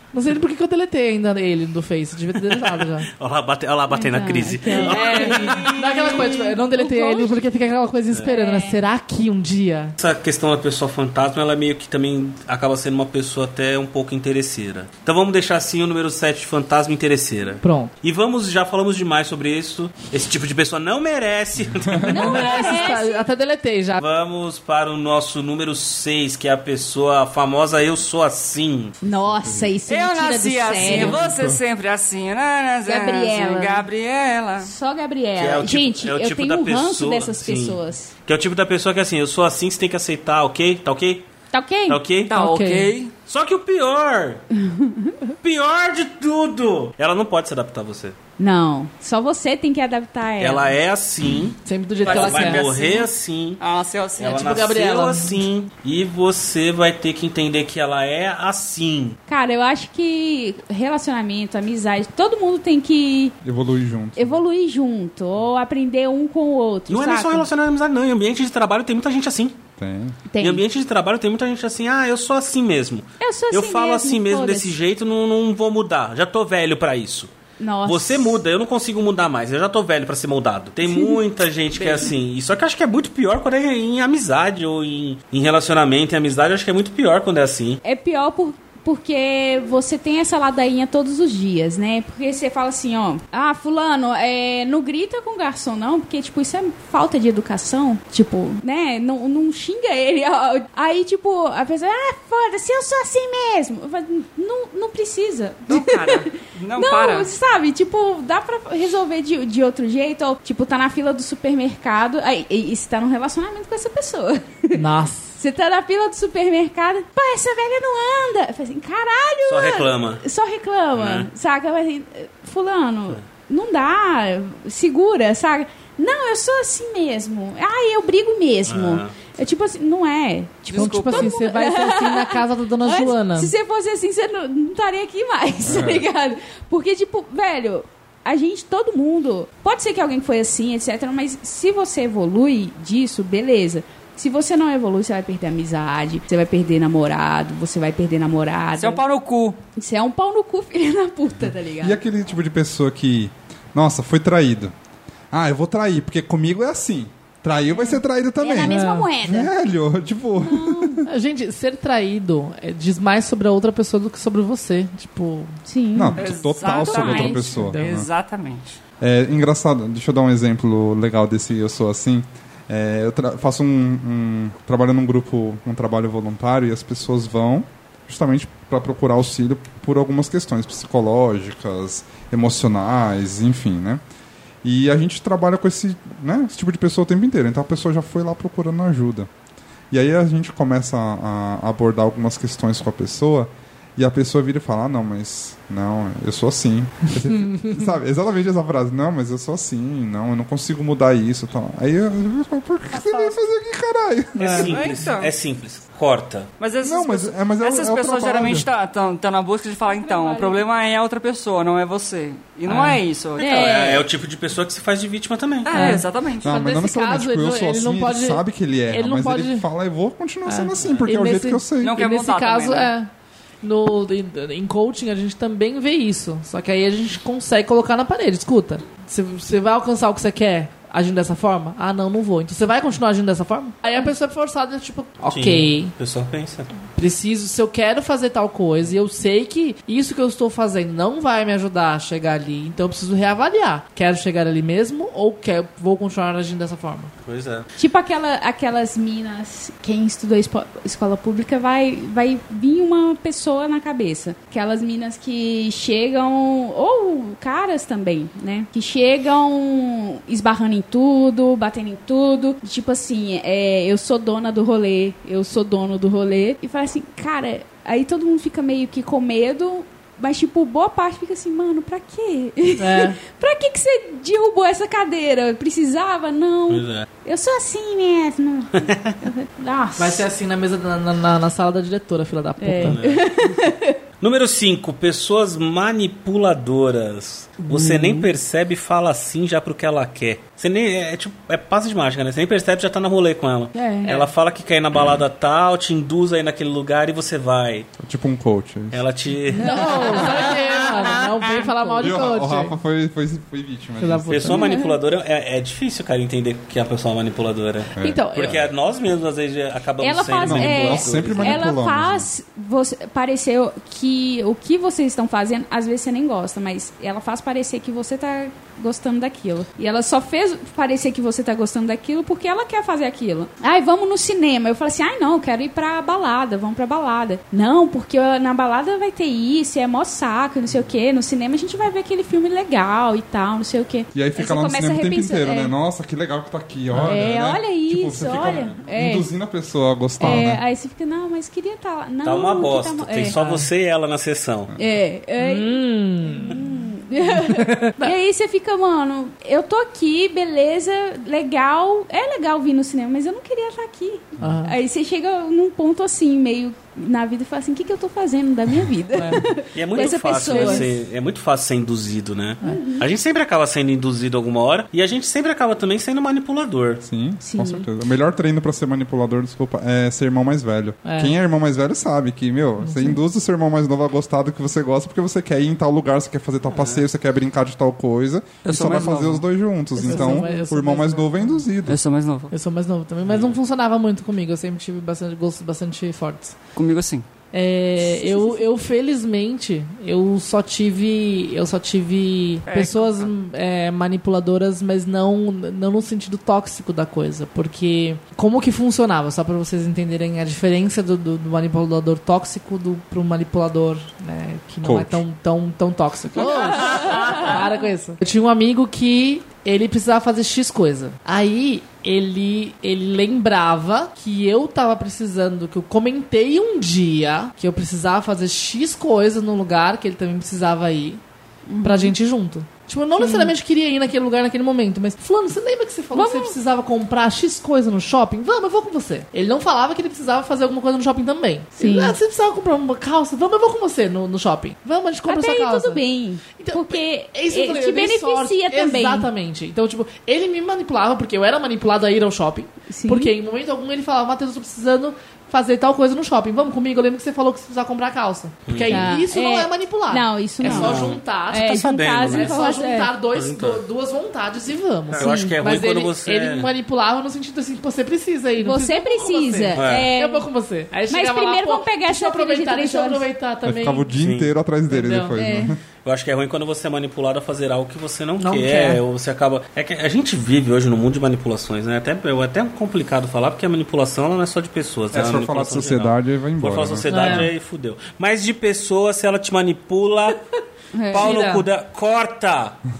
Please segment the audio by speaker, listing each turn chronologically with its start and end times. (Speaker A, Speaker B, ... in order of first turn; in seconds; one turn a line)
Speaker A: 0.1-3.1
Speaker B: 2.5-5.7
Speaker C: 3.9-7.4
Speaker A: 4.7-9.9
Speaker D: 5.0-6.0
Speaker C: 8.2-8.8
Speaker B: 10.0-22.8
Speaker A: 17.6-17.9
Speaker E: 21.8-22.2
Speaker C: 22.1-23.2
Speaker A: 22.1-24.0
Speaker B: 24.0-29.0
Speaker C: 29.0-31.3
Speaker E: 29.0-29.8
Speaker D: 29.9-34.7
Speaker E: 30.8-31.6
Speaker C: 32.8-33.9
Speaker C: 34.6-38.1
Speaker B: 35.4-41.3
Speaker C: 41.5-42.0
Speaker B: 41.9-42.3
Speaker D: 42.3-43.1
Speaker A: 42.3-42.9
Speaker B: 43.2-44.4
Speaker C: 44.6-45.1
Speaker B: 45.4-48.2
Speaker C: 48.4-50.7
Speaker B: 50.4-53.6
Speaker A: 51.6-52.7
Speaker D: 52.0-54.5
Speaker B: 54.2-59.2
Speaker A: 54.3-55.4
Speaker C: 59.3-63.3
Speaker E: 63.4-64.4
Speaker C: 64.2-67.5
Speaker B: 66.9-69.6
Speaker E: 69.8-70.2
Speaker C: 70.3-70.6
Speaker B: 70.4-77.3
Speaker C: 73.2-74.8
Speaker C: 77.6-78.4
Speaker B: 77.8-87.8
Speaker C: 80.8-81.2
Speaker D: 81.8-82.1
Speaker C: 87.8-114.8
Speaker D: 105.7-107.3
Speaker A: 114.7-115.4
Speaker C: 115.4-149.0
Speaker B: 119.5-120.2
Speaker B: 120.9-121.3
Speaker B: 128.7-129.2
Speaker D: 130.7-131.3
Speaker A: 130.7-133.5
Speaker E: 135.6-136.1
Speaker D: 148.7-149.6
Speaker C: 149.7-152.0
Speaker E: 151.8-154.7
Speaker E: 155.3-161.1
Speaker C: 157.8-159.5
Speaker A: 158.6-159.4
Speaker C: 160.4-161.1
Speaker A: 161.1-165.6
Speaker C: 165.7-167.5
Speaker E: 165.9-168.1
Speaker D: 166.2-168.8
Speaker A: 167.5-167.9
Speaker E: 169.0-184.0
Speaker E: 184.6-189.3
Speaker E: 189.9-204.8
Speaker A: 204.3-204.7
Speaker B: 204.5-206.5
Speaker D: 204.6-205.3
Speaker D: 206.6-214.0
Speaker E: 206.8-208.6
Speaker C: 209.9-210.6
Speaker A: 212.7-213.0
Speaker B: 213.4-215.9
Speaker C: 213.4-214.0
Speaker D: 215.6-216.5
Speaker A: 215.7-219.6
Speaker E: 216.4-222.0
Speaker A: 220.4-223.1
Speaker B: 220.7-221.0
Speaker D: 221.8-222.9
Speaker A: 223.6-235.9
Speaker B: 235.3-236.7
Speaker A: 236.9-247.1
Speaker B: 247.2-247.7
Speaker C: 247.8-280.2
Speaker A: 272.8-273.2
Speaker B: 276.7-277.1
Speaker B: 278.7-279.1
Speaker A: 280.0-283.0
Speaker C: 282.6-284.0
Speaker B: 282.8-283.5
Speaker B: 284.2-297.9
Speaker A: 287.7-288.2
Speaker C: 293.7-294.2
Speaker E: 298.0-299.0
Speaker B: 298.9-300.4
Speaker A: 299.5-302.7
Speaker C: 299.6-302.1
Speaker E: 302.0-304.6
Speaker A: 304.0-304.6
Speaker B: 304.3-311.7
Speaker C: 304.6-304.9
Speaker E: 307.9-308.2
Speaker A: 308.0-308.6
Speaker C: 310.0-335.7
Speaker E: 310.4-312.3
Speaker E: 334.1-340.6
Speaker A: 336.9-337.2
Speaker C: 337.0-339.3
Speaker B: 338.3-338.7
Speaker C: 340.2-343.4
Speaker A: 340.2-340.5
Speaker B: 342.2-344.7
Speaker A: 343.3-343.7
Speaker C: 344.8-360.9
Speaker A: 345.4-346.6
Speaker A: 347.2-348.1
Speaker A: 354.4-354.8
Speaker A: 359.1-359.4
Speaker B: 359.7-367.0
Speaker A: 360.4-360.9
Speaker C: 362.6-363.1
Speaker E: 367.0-382.0
Speaker C: 367.4-367.9
Speaker A: 371.0-371.3
Speaker A: 372.8-373.2
Speaker D: 378.6-379.5
Speaker A: 380.0-381.6
Speaker D: 380.1-380.4
Speaker D: 381.9-382.5
Speaker A: 382.5-386.6
Speaker B: 383.2-383.6
Speaker D: 386.7-387.2
Speaker A: 387.5-421.2
Speaker C: 388.1-388.6
Speaker D: 392.6-393.3
Speaker E: 404.8-405.2
Speaker C: 406.8-407.3
Speaker D: 407.1-407.5
Speaker C: 421.7-422.1
Speaker A: 421.8-436.0
Speaker C: 423.2-423.5
Speaker C: 426.1-426.6
Speaker C: 431.8-432.2
Speaker C: 435.3-439.3
Speaker A: 436.6-464.2
Speaker C: 442.9-443.3
Speaker B: 448.7-449.1
Speaker C: 448.9-453.1
Speaker B: 450.6-452.6
Speaker B: 453.3-453.8
Speaker B: 455.1-456.7
Speaker C: 455.1-455.6
Speaker C: 458.6-460.5
Speaker B: 459.8-460.1
Speaker C: 461.1-463.3
Speaker E: 463.6-465.8
Speaker B: 464.1-464.5
Speaker A: 464.9-465.4
Speaker C: 465.4-465.7
Speaker B: 466.0-480.4
Speaker A: 468.4-469.0
Speaker E: 475.1-477.4
Speaker A: 477.1-477.5
Speaker C: 480.9-481.5
Speaker B: 481.1-482.8
Speaker A: 481.1-481.6